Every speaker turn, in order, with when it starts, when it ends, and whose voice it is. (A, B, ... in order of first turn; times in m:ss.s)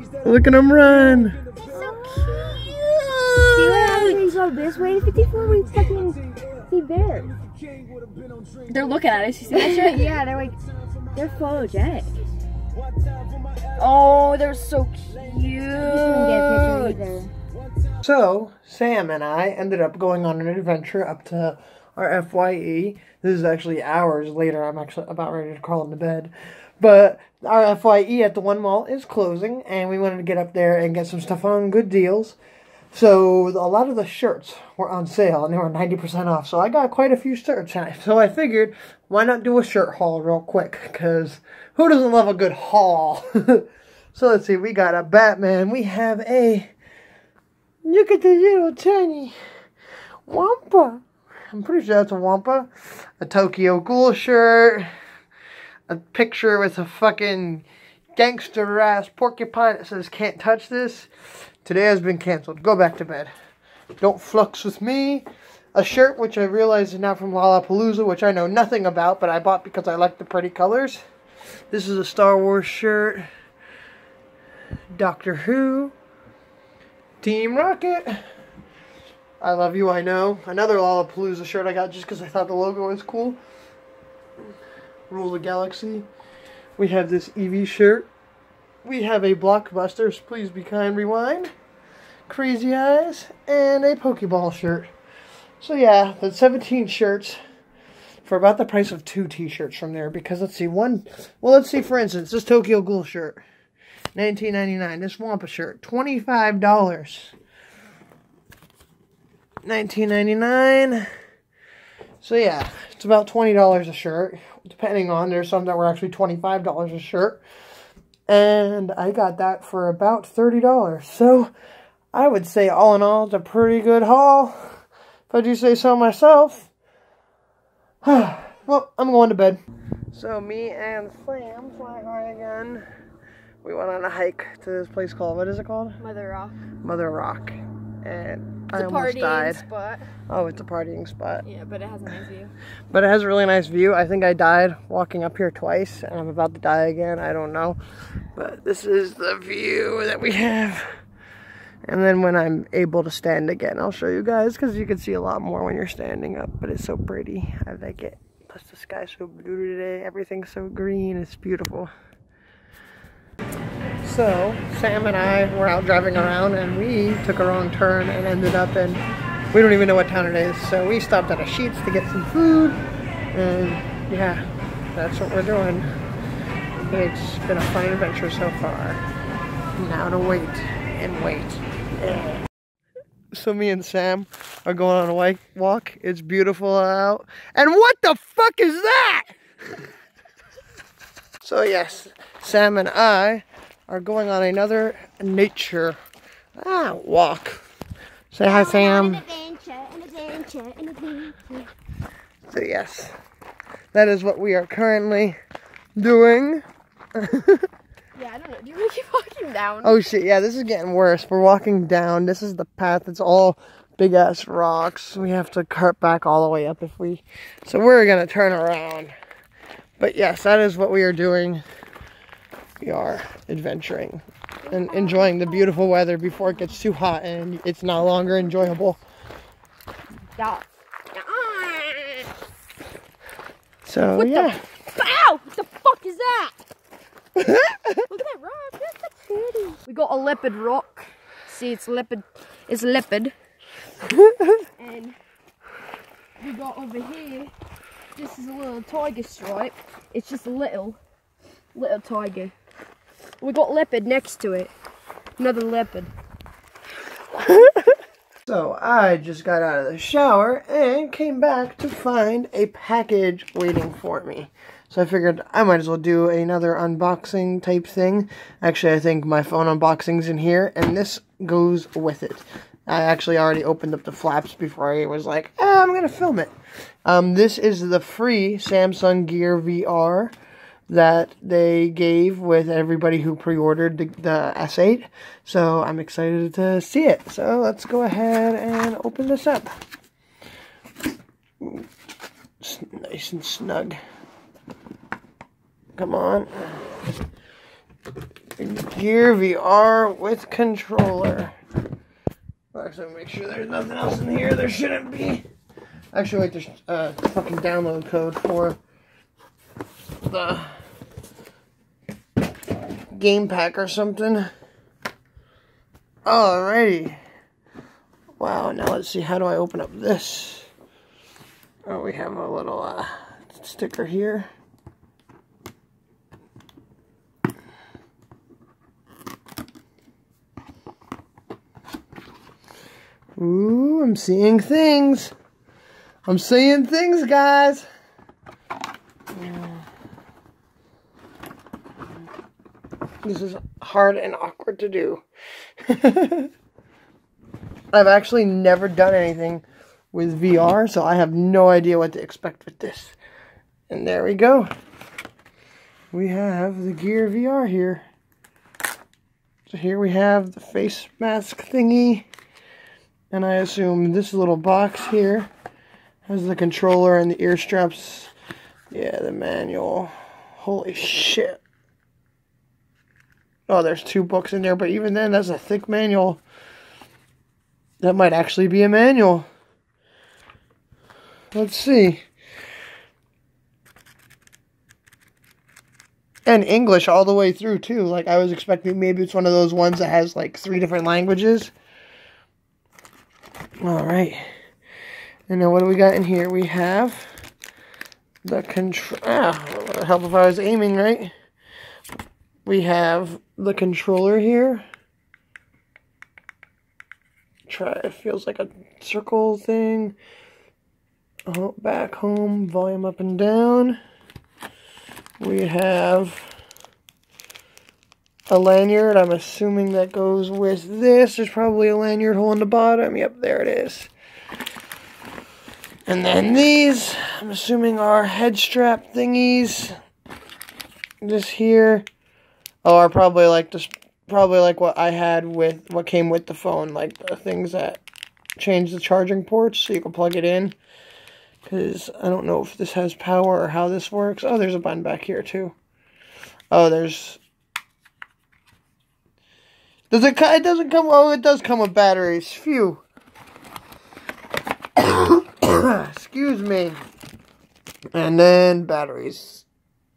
0:00.2-0:01.4 A
0:01.6-0:07.3 B
0:01.8-0:02.5 C
0:03.0-0:03.4 A
0:03.4-0:04.3 C
0:08.7-0:10.2 C
0:09.5-0:10.6 B
0:11.1-0:12.1 B
0:13.8-0:17.0 C
0:15.7-0:17.3 B
0:18.0-0:32.4 A
0:32.9-0:46.7 A
0:47.8-0:49.3 A
0:50.3-0:54.9 A
0:55.9-1:01.1 A
1:01.6-1:03.3 A
1:04.0-1:11.0 A
1:11.7-1:13.3 A
1:14.9-1:15.9 A
1:17.2-1:18.2 A
1:19.4-1:23.4 A
1:25.1-1:26.1 A
1:26.8-1:28.1 A
1:28.8-1:31.5 A
1:32.3-1:34.9 A
1:35.6-1:37.4 A
1:38.2-1:43.4 A
1:44.1-1:47.3 A
1:49.6-1:51.1 A
1:52.2-1:57.4 A
1:58.3-2:01.5 A
2:02.1-2:06.7 A
2:08.0-2:09.6 A
2:10.1-2:12.8 A
2:13.6-2:16.0 A
2:16.0-2:16.6 C
2:16.8-2:19.6 A
2:18.7-2:20.1 C
2:20.3-2:21.4 A
2:21.4-2:22.5 C
2:22.9-2:27.8 A
2:28.4-2:30.9 A
2:31.9-2:41.9 A
2:44.0-2:52.8 A
2:53.3-2:54.4 A
2:54.9-2:55.9 A
2:56.8-2:59.0 A
2:59.8-3:02.4 A
3:03.3-3:09.4 A
3:11.4-3:16.0 A
3:16.6-3:17.6 A
3:18.3-3:19.2 A
3:18.5-3:21.7 B
3:22.4-3:23.1 A
3:23.9-3:25.4 A
3:26.0-3:26.6 A
3:27.2-3:27.7 A
3:28.2-3:30.0 C
3:29.8-3:39.1 A
3:40.0-3:41.6 A
3:42.8-3:49.0 A
3:44.6-3:45.7 C
3:50.4-3:52.3 C
3:53.9-3:54.6 A
3:54.1-3:56.6 C
3:57.4-3:58.0 A
3:58.0-4:03.4 C
4:04.0-4:04.6 A
4:04.8-4:05.2 C
4:06.4-4:07.5 C
4:08.2-4:11.0 C
4:11.7-4:12.5 C
4:13.4-4:14.7 C
4:15.4-4:16.1 C
4:18.5-4:36.5 A
4:37.0-4:40.3 A
4:40.9-4:49.7 A
4:51.6-4:51.9 A
4:52.6-4:54.0 A
4:56.0-4:56.9 A
4:58.6-5:01.5 A
5:02.7-5:05.4 A
5:06.1-5:08.8 A
5:10.2-5:10.8 A
5:13.1-5:14.5 A
5:16.2-5:17.2 A
5:18.4-5:20.7 A
5:21.9-5:24.5 A
5:33.4-5:35.3 A
5:36.2-5:37.9 A
5:39.3-5:39.8 A
5:43.2-5:45.2 A
5:45.9-5:46.5 A
5:47.9-5:53.2 A
5:53.9-5:54.7 A
5:56.1-5:58.0 A
5:59.7-6:02.2 A
6:03.3-6:05.5 A
6:06.2-6:08.3 A
6:08.9-6:11.6 A
6:13.7-6:16.4 A
6:18.0-6:19.5 A
6:21.5-6:22.2 A
6:26.5-6:31.7 A
6:33.8-6:34.4 A
6:35.5-6:37.3 A
6:38.4-6:41.3 A
6:42.6-6:44.8 A
6:47.7-6:50.2 A
6:51.5-6:54.0 A
6:55.4-6:56.5 A
6:58.5-7:04.1 A
7:06.1-7:09.9 A
7:11.2-7:12.0 A
7:12.8-7:18.0 A
7:18.6-7:20.8 A
7:21.6-7:25.8 A
7:26.7-7:27.4 A
7:30.1-7:33.0 A
7:35.0-7:37.0 A
7:38.1-7:39.6 A